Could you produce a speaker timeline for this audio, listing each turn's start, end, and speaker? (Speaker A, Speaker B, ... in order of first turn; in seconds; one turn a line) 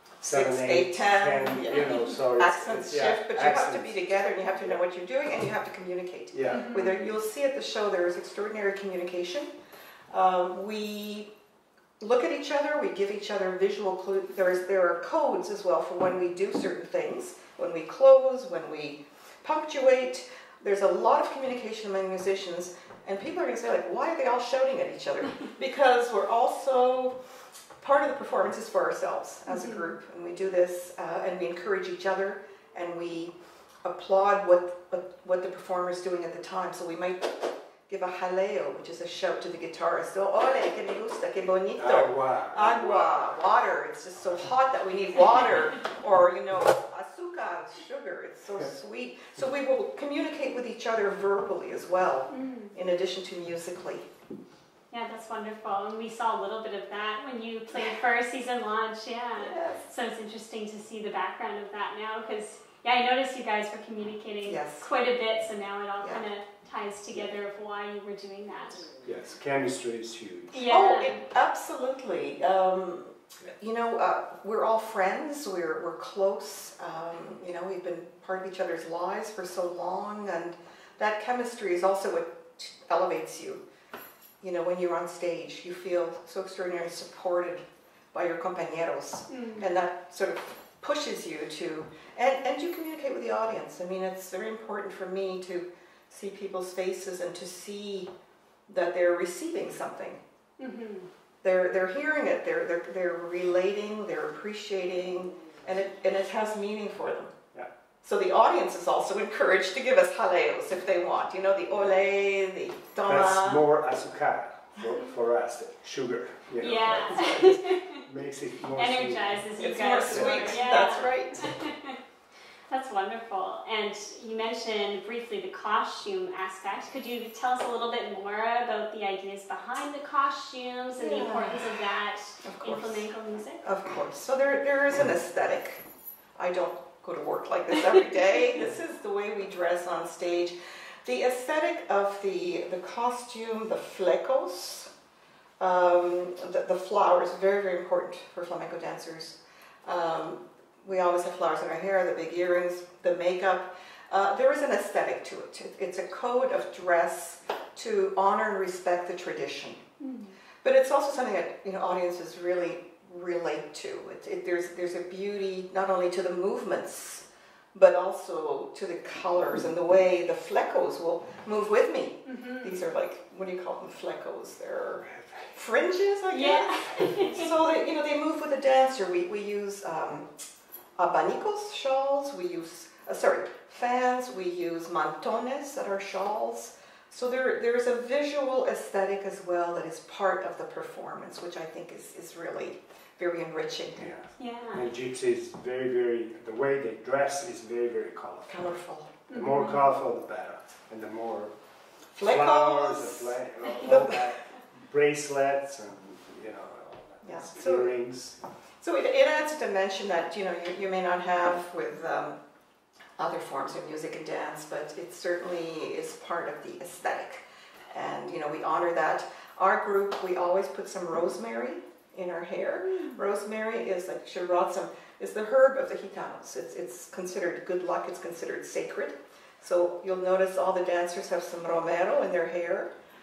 Speaker A: 0.2-4.8
Speaker B: 0.3-9.5
Speaker A: 6.3-6.7
Speaker C: 6.5-7.1
Speaker B: 10.1-11.3
Speaker B: 12.0-27.1
Speaker B: 27.8-54.0
Speaker C: 29.5-29.9
Speaker A: 41.8-42.7
Speaker C: 42.5-43.2
Speaker C: 52.3-52.7
Speaker C: 54.9-68.9
Speaker B: 57.7-58.0
Speaker B: 59.4-59.9
Speaker B: 64.4-64.9
Speaker B: 66.0-66.2
Speaker A: 69.0-70.6
Speaker C: 70.5-71.2
Speaker B: 70.6-83.6
Speaker B: 84.4-98.1
Speaker C: 89.3-89.7
Speaker B: 98.7-100.2
Speaker C: 100.6-101.1
Speaker B: 101.4-107.3
Speaker B: 108.0-113.6
Speaker A: 113.1-119.4
Speaker C: 116.6-118.0
Speaker C: 118.7-122.0
Speaker B: 119.6-121.4
Speaker A: 120.1-120.6
Speaker C: 122.7-133.6
Speaker B: 131.0-131.7
Speaker B: 132.4-133.1
Speaker B: 133.6-135.8
Speaker B: 136.4-144.9
Speaker B: 145.6-159.8
Speaker C: 160.0-160.3
Speaker B: 160.6-176.8
Speaker C: 172.2-172.8
Speaker A: 175.0-175.5
Speaker C: 176.3-177.5
Speaker B: 177.3-180.3
Speaker B: 181.0-194.1
Speaker A: 193.9-198.6
Speaker C: 194.4-194.8
Speaker B: 198.5-199.1
Speaker C: 199.3-199.9
Speaker A: 199.3-201.5
Speaker B: 202.1-204.2
Speaker A: 202.2-208.4
Speaker B: 207.2-208.0
Speaker B: 208.8-212.3
Speaker B: 213.2-232.9
Speaker C: 222.9-223.2